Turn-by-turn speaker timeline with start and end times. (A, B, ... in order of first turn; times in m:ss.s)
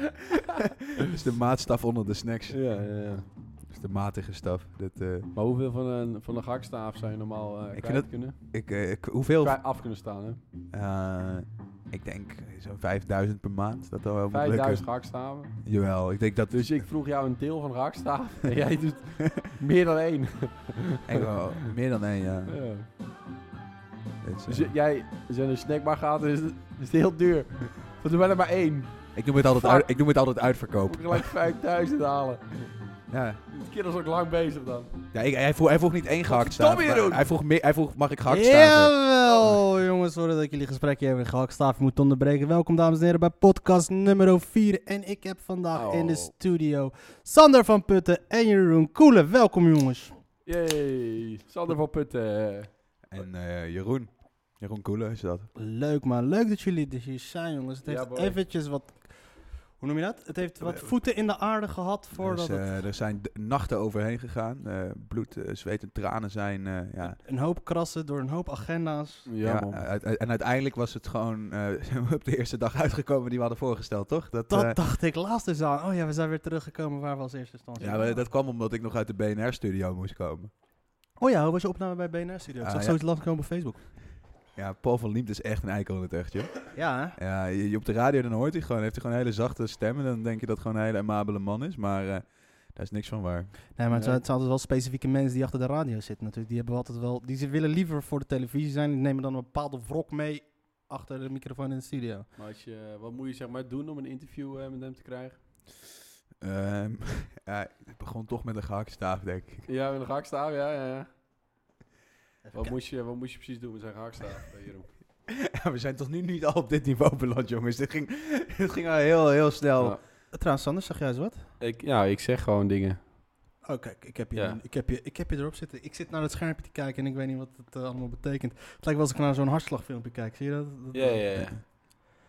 0:01.0-0:02.7 A
0:02.5-0:03.2 B
0:03.6-0:05.3 A
0:05.3-0:08.4 B
0:07.7-0:09.6 A
0:09.4-0:10.4 B
0:10.7-0:16.9 A
0:14.3-0:15.8 B
0:16.5-0:21.2 B
0:21.0-0:22.6 A
0:22.5-0:22.9 B
0:24.2-0:24.7 A
0:24.5-0:29.9 B
0:29.1-0:31.3 A
0:30.8-0:32.7 B
0:33.1-0:33.4 A
0:33.5-0:34.9 B
0:35.1-0:39.0 A
0:36.2-0:37.2 B
0:38.3-0:50.2 C
0:45.7-0:46.3 B
0:50.4-0:52.9 B
0:53.1-0:55.5 A
0:55.5-1:02.9 C
0:57.8-0:58.4 B
1:00.6-1:00.9 A
1:02.2-1:07.2 A
1:07.0-1:09.3 C
1:09.3-1:09.8 B
1:09.4-1:14.8 A
1:14.5-1:18.2 C
1:17.8-1:20.5 A
1:21.2-1:23.8 C
1:22.6-1:23.0 A
1:24.5-1:33.5 A
1:26.7-1:27.2 C
1:33.8-1:42.3 C
1:33.9-1:34.2 B
1:42.4-1:45.4 B
1:46.4-1:49.7 A
1:49.6-1:51.1 B
1:52.4-1:52.8 C
1:52.5-1:54.9 B
1:55.3-2:00.0 A
2:00.3-2:01.4 C
2:01.6-2:03.0 B
2:03.6-2:11.4 C
2:04.3-2:04.6 B
2:10.9-2:11.6 B